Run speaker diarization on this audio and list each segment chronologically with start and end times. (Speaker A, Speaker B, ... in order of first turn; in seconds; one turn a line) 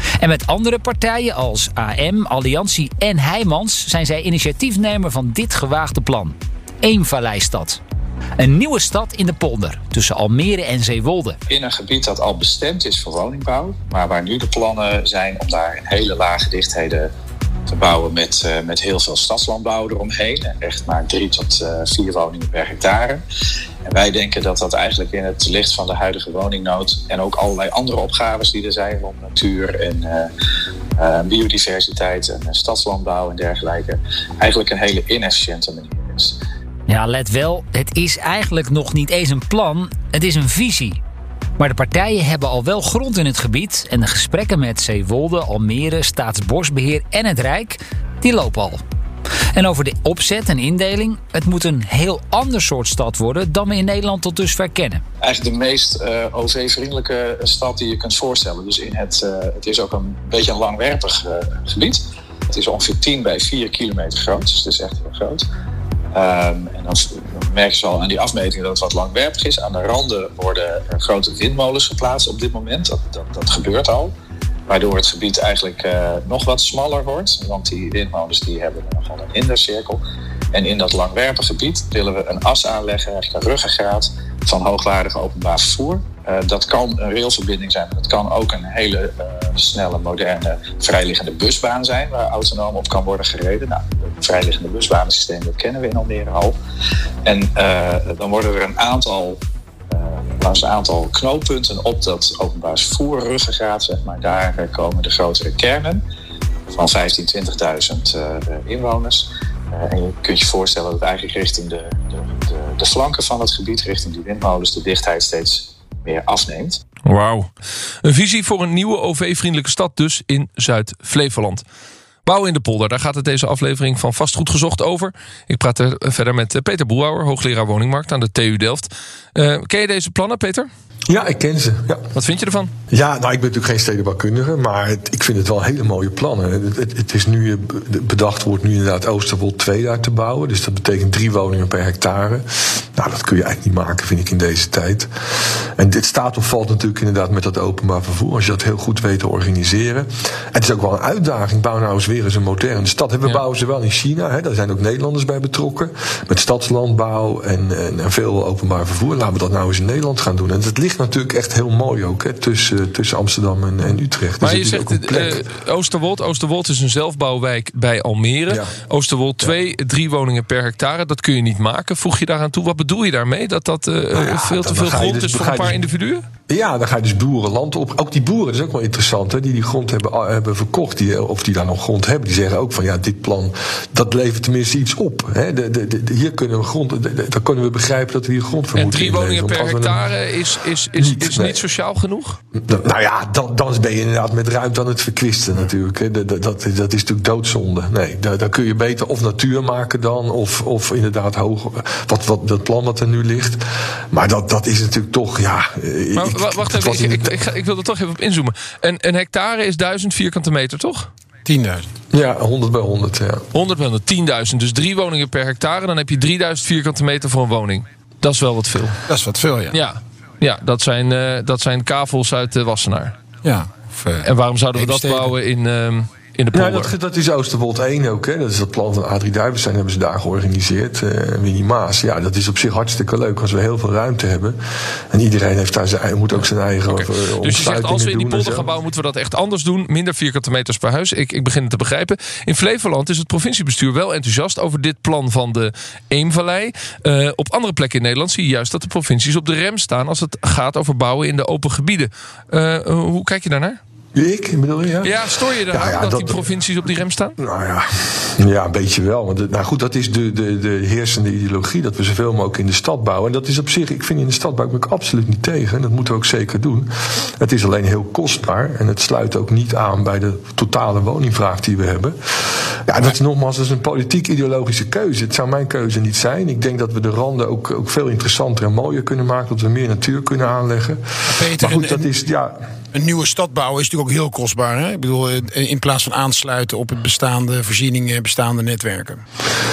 Speaker A: 0.2-7.8
Speaker A: 8.4-11.4
Speaker B: 11.5-17.1
Speaker B: 17.7-23.2
Speaker B: 23.8-30.3
Speaker B: 31.0-36.4
Speaker A: 36.9-41.0
Speaker A: 41.6-48.8
Speaker A: 49.5-55.0
Speaker B: 55.2-65.5
Speaker B: 66.1-74.1
Speaker B: 74.7-80.0
Speaker B: 80.5-96.5
Speaker B: 97.2-99.4
Speaker B: 99.9-106.0
Speaker B: 106.7-116.8
Speaker C: 117.0-117.5
Speaker C: 118.0-121.6
Speaker C: 122.2-130.7
Speaker D: 131.1-132.1
Speaker C: 132.1-132.7
Speaker D: 132.9-165.4
Speaker C: 164.4-176.2
Speaker D: 174.1-175.8
Speaker D: 176.5-190.0
Speaker C: 188.7-192.4
Speaker D: 191.0-191.6
Speaker D: 192.5-207.3
Speaker C: 206.1-211.1
Speaker E: 211.4-211.9
Speaker D: 212.1-213.4
Speaker C: 213.5-219.0
Speaker E: 219.1-219.8
Speaker C: 219.7-223.2
Speaker E: 223.4-225.3
Speaker C: 224.2-226.9
Speaker D: 226.5-234.6
Speaker D: 235.1-238.7
Speaker C: 236.9-253.8
Speaker D: 254.1-256.4
Speaker C: 255.0-257.4
Speaker D: 257.4-282.6
Speaker E: 281.3-282.1
Speaker E: 282.9-289.2